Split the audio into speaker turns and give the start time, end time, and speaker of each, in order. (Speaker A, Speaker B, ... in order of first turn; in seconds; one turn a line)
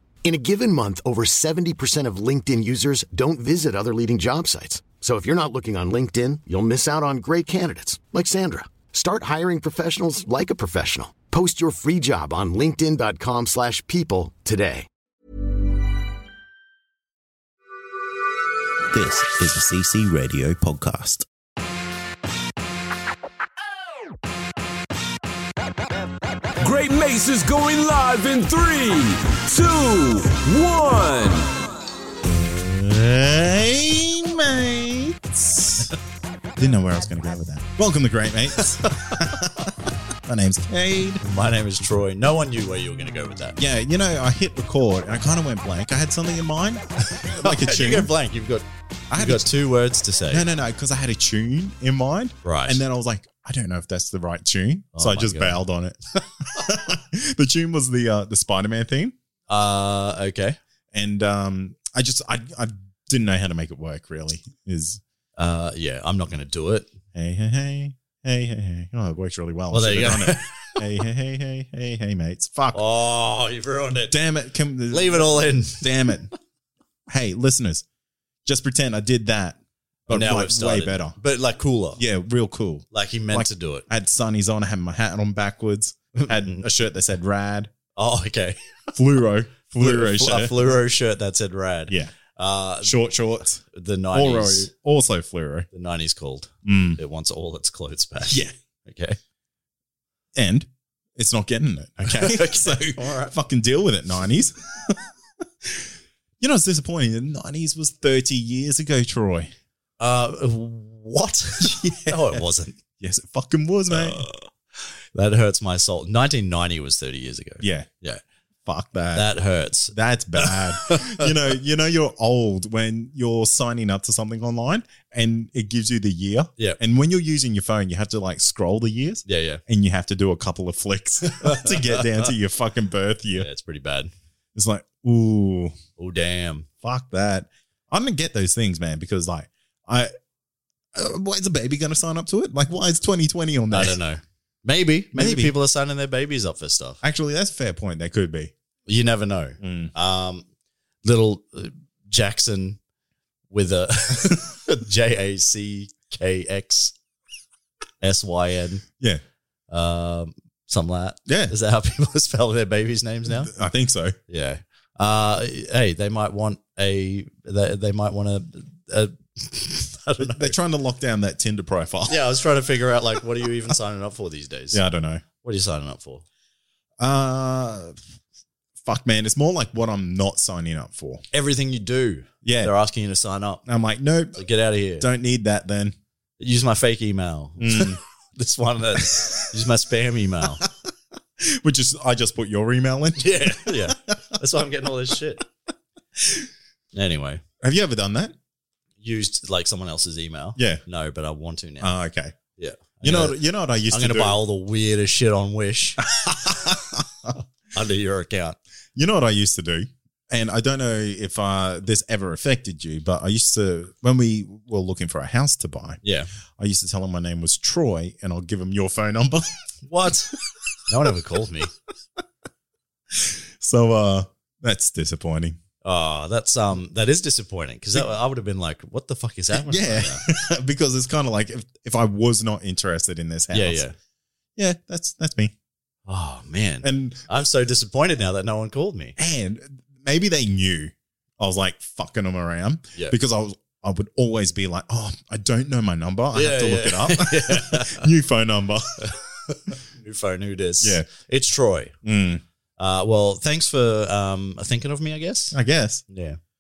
Speaker A: 0.2-14.9
Speaker B: 18.9-21.3
Speaker C: 26.6-31.6
Speaker B: 32.2-35.9
Speaker B: 36.6-41.2
Speaker D: 38.6-39.3
Speaker D: 41.2-43.6
Speaker B: 43.6-48.1
Speaker D: 47.1-50.5
Speaker B: 49.1-49.5
Speaker B: 50.3-59.1
Speaker D: 52.4-52.8
Speaker D: 55.0-55.6
Speaker D: 59.5-60.6
Speaker B: 60.9-65.0
Speaker D: 65.4-66.9
Speaker B: 67.1-72.8
Speaker D: 69.7-70.9
Speaker D: 72.7-74.2
Speaker B: 74.1-76.3
Speaker D: 74.9-76.2
Speaker B: 77.1-77.8
Speaker B: 78.5-81.2
Speaker D: 80.1-82.0
Speaker B: 82.0-87.7
Speaker D: 82.9-83.8
Speaker D: 86.3-86.6
Speaker D: 88.0-88.9
Speaker B: 88.9-90.7
Speaker D: 89.7-93.0
Speaker B: 92.8-93.6
Speaker D: 93.7-94.7
Speaker B: 94.1-95.7
Speaker D: 95.7-99.2
Speaker B: 96.7-97.0
Speaker B: 98.3-98.5
Speaker B: 100.3-105.0
Speaker D: 102.1-103.3
Speaker B: 105.6-105.9
Speaker B: 106.4-109.5
Speaker D: 110.0-112.8
Speaker B: 111.6-112.4
Speaker B: 113.0-114.2
Speaker D: 113.9-118.2
Speaker B: 117.6-117.9
Speaker B: 118.7-119.3
Speaker D: 119.1-121.3
Speaker B: 119.9-133.5
Speaker D: 129.3-129.6
Speaker D: 131.3-132.3
Speaker D: 133.3-134.1
Speaker B: 134.6-135.8
Speaker D: 136.0-136.7
Speaker B: 136.8-140.1
Speaker B: 140.9-144.0
Speaker D: 143.7-147.0
Speaker B: 145.1-145.5
Speaker B: 147.0-148.5
Speaker D: 148.9-150.4
Speaker B: 149.6-149.9
Speaker D: 151.1-152.8
Speaker D: 153.5-156.9
Speaker D: 158.0-158.8
Speaker D: 159.7-163.5
Speaker B: 161.3-161.5
Speaker B: 163.3-164.2
Speaker D: 164.3-170.6
Speaker B: 170.2-172.2
Speaker D: 172.1-174.8
Speaker B: 174.7-175.2
Speaker D: 175.4-176.2
Speaker B: 177.0-178.0
Speaker B: 178.8-181.2
Speaker D: 181.3-183.6
Speaker B: 182.4-182.7
Speaker B: 183.7-184.4
Speaker D: 184.4-185.1
Speaker B: 185.0-185.9
Speaker D: 186.4-190.7
Speaker B: 187.6-188.0
Speaker B: 191.4-194.4
Speaker D: 193.2-195.5
Speaker B: 196.2-196.5
Speaker D: 196.9-197.4
Speaker B: 197.6-198.3
Speaker D: 199.0-201.9
Speaker B: 200.6-200.8
Speaker B: 201.8-202.4
Speaker D: 202.6-206.0
Speaker B: 203.0-204.4
Speaker B: 206.0-207.4
Speaker D: 207.7-208.6
Speaker B: 209.0-216.0
Speaker D: 216.0-216.3
Speaker B: 216.6-219.5
Speaker D: 219.9-220.3
Speaker D: 220.9-221.7
Speaker B: 223.1-225.6
Speaker D: 225.8-230.2
Speaker B: 229.5-233.8
Speaker D: 233.5-233.9
Speaker B: 234.6-235.5
Speaker D: 236.1-239.2
Speaker B: 236.8-237.3
Speaker B: 239.2-249.1
Speaker D: 246.3-248.1
Speaker D: 249.1-251.9
Speaker B: 250.8-251.1
Speaker B: 252.0-252.4
Speaker D: 252.8-255.6
Speaker B: 255.5-256.0
Speaker D: 256.1-256.4